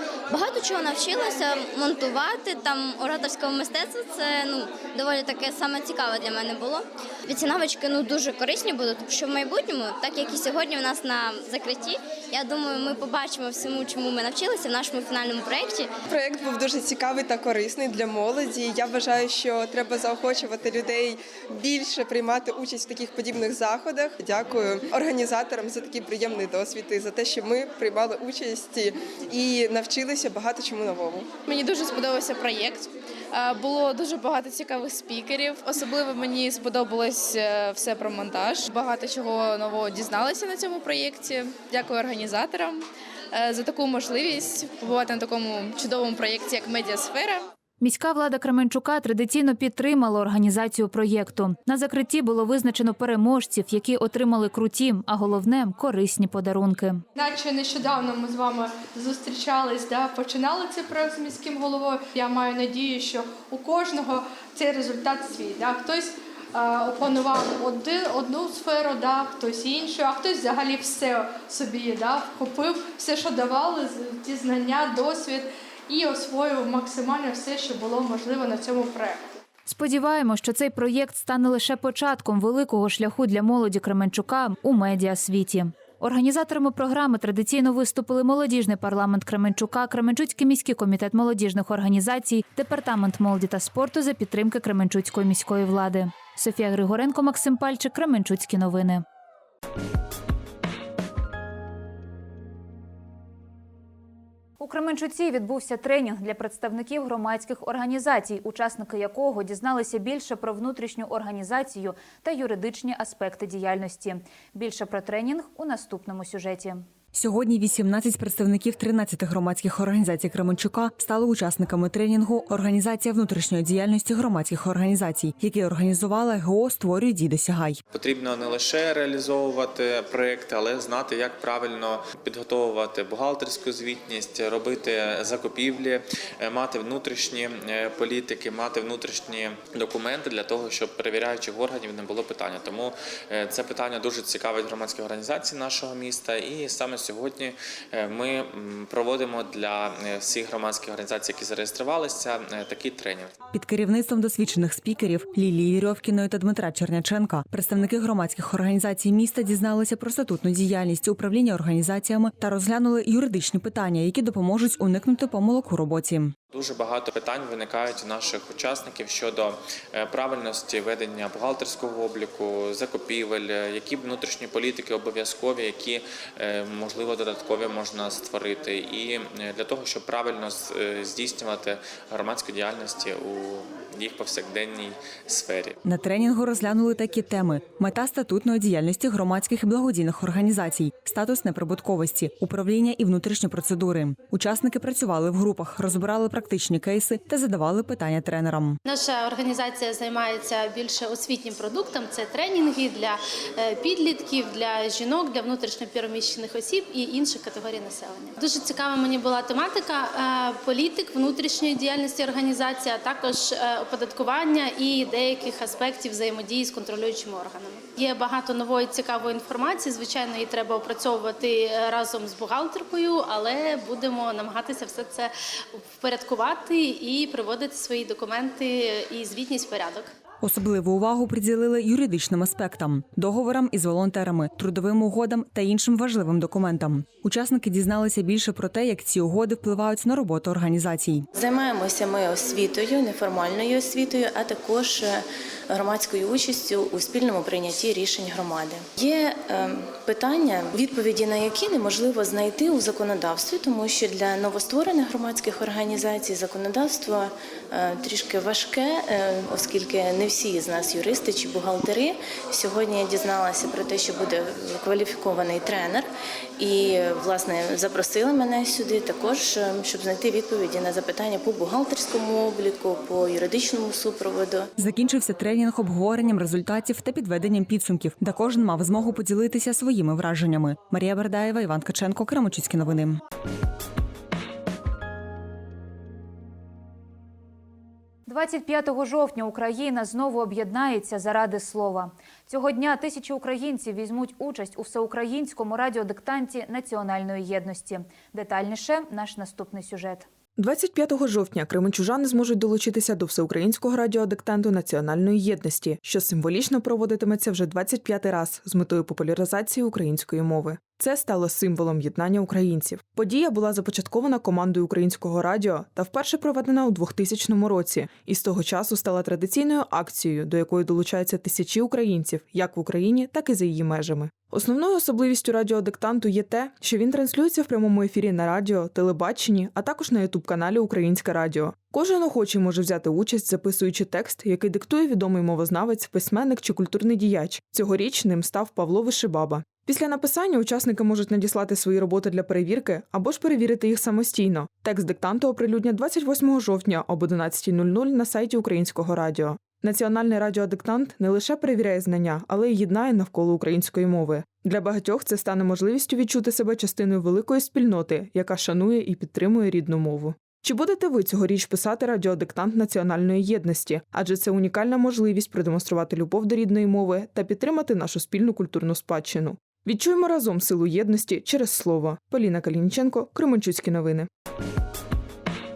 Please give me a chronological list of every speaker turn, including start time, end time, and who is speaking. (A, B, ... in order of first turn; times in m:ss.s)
0:00.3-0:15.9 A
0:16.1-0:31.3 B
0:31.5-0:47.4 C
0:47.8-0:57.0 D
0:57.1-1:19.2 E
1:19.6-1:39.0 D
1:44.6-1:56.8 D
1:57.1-2:07.8 F
2:07.9-2:33.3 G
2:33.5-2:46.3 F
2:46.5-3:05.8 G
3:05.8-3:18.8 F
3:18.8-3:50.1 H
3:50.4-4:01.3 F
4:01.3-4:26.1 I
4:26.6-4:34.7 I
4:34.8-4:43.2 F
4:48.3-5:00.2 D
5:00.6-6:14.3 J